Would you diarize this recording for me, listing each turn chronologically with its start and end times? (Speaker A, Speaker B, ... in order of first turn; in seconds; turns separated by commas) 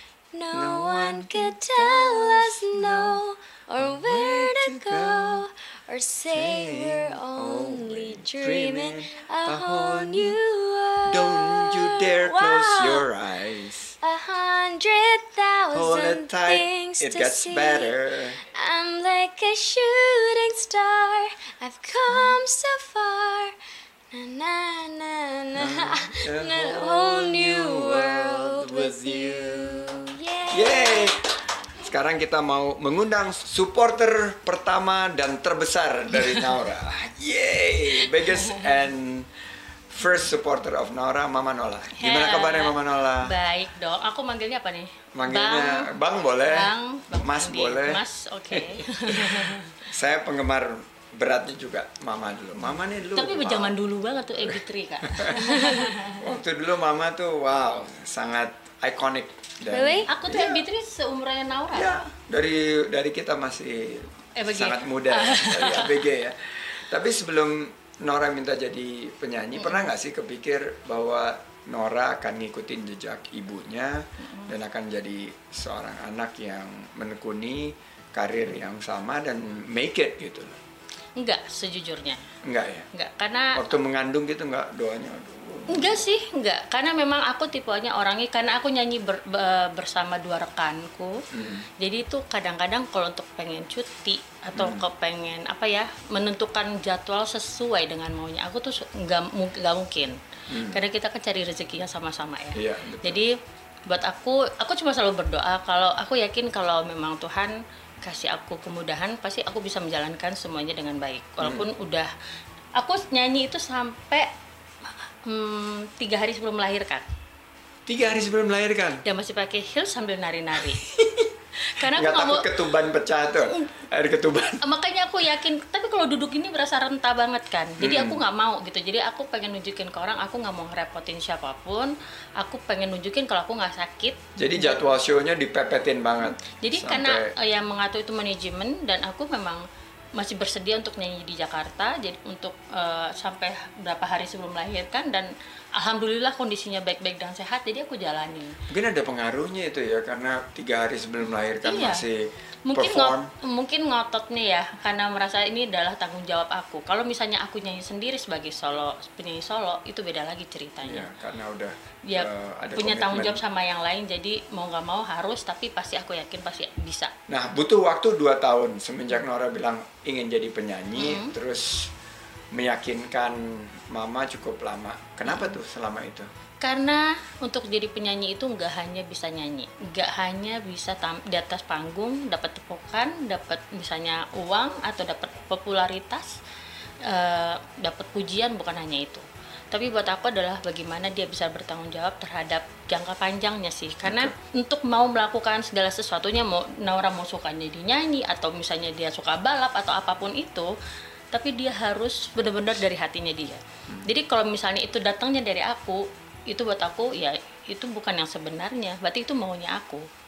Speaker A: 0.3-13.0, Speaker B: 0.5-3.2, Speaker B: 3.8-5.4, Speaker B: 6.3-10.4, Speaker B: 11.1-13.9, Speaker A: 14.0-23.5, Speaker B: 15.7-18.4, Speaker A: 24.1-31.1, Speaker B: 25.6-31.3, Speaker B: 31.8-39.3, Speaker C: 38.3-38.6, Speaker B: 39.9-43.3, Speaker C: 42.0-45.9, Speaker B: 45.1-48.0, Speaker C: 46.5-49.7, Speaker B: 48.5-53.8, Speaker C: 53.1-56.2, Speaker B: 54.4-60.6, Speaker A: 59.7-60.1, Speaker C: 60.1-62.0, Speaker B: 61.7-80.6, Speaker C: 64.4-66.0, Speaker C: 74.2-74.5, Speaker C: 81.2-82.2, Speaker B: 82.4-82.9, Speaker C: 82.9-83.6, Speaker B: 83.5-86.0, Speaker C: 85.7-91.2, Speaker B: 91.3-91.7, Speaker C: 91.8-112.1, Speaker B: 94.5-94.8, Speaker B: 100.5-100.8, Speaker B: 102.5-103.2, Speaker B: 111.4-111.7, Speaker C: 112.8-114.3, Speaker C: 114.8-117.0, Speaker B: 117.9-119.0, Speaker C: 119.0-120.8, Speaker B: 120.8-124.6, Speaker C: 121.6-122.5, Speaker C: 124.6-134.8, Speaker B: 127.8-128.2, Speaker B: 134.4-137.3, Speaker C: 136.4-139.6, Speaker C: 140.2-148.6, Speaker B: 148.7-153.3, Speaker C: 151.6-152.0, Speaker C: 152.7-161.1, Speaker B: 160.8-163.4, Speaker C: 162.1-167.1, Speaker B: 167.3-171.9, Speaker C: 171.0-171.3, Speaker B: 172.5-176.3, Speaker C: 176.6-186.4, Speaker C: 187.0-200.7, Speaker B: 194.0-194.3, Speaker C: 201.3-210.1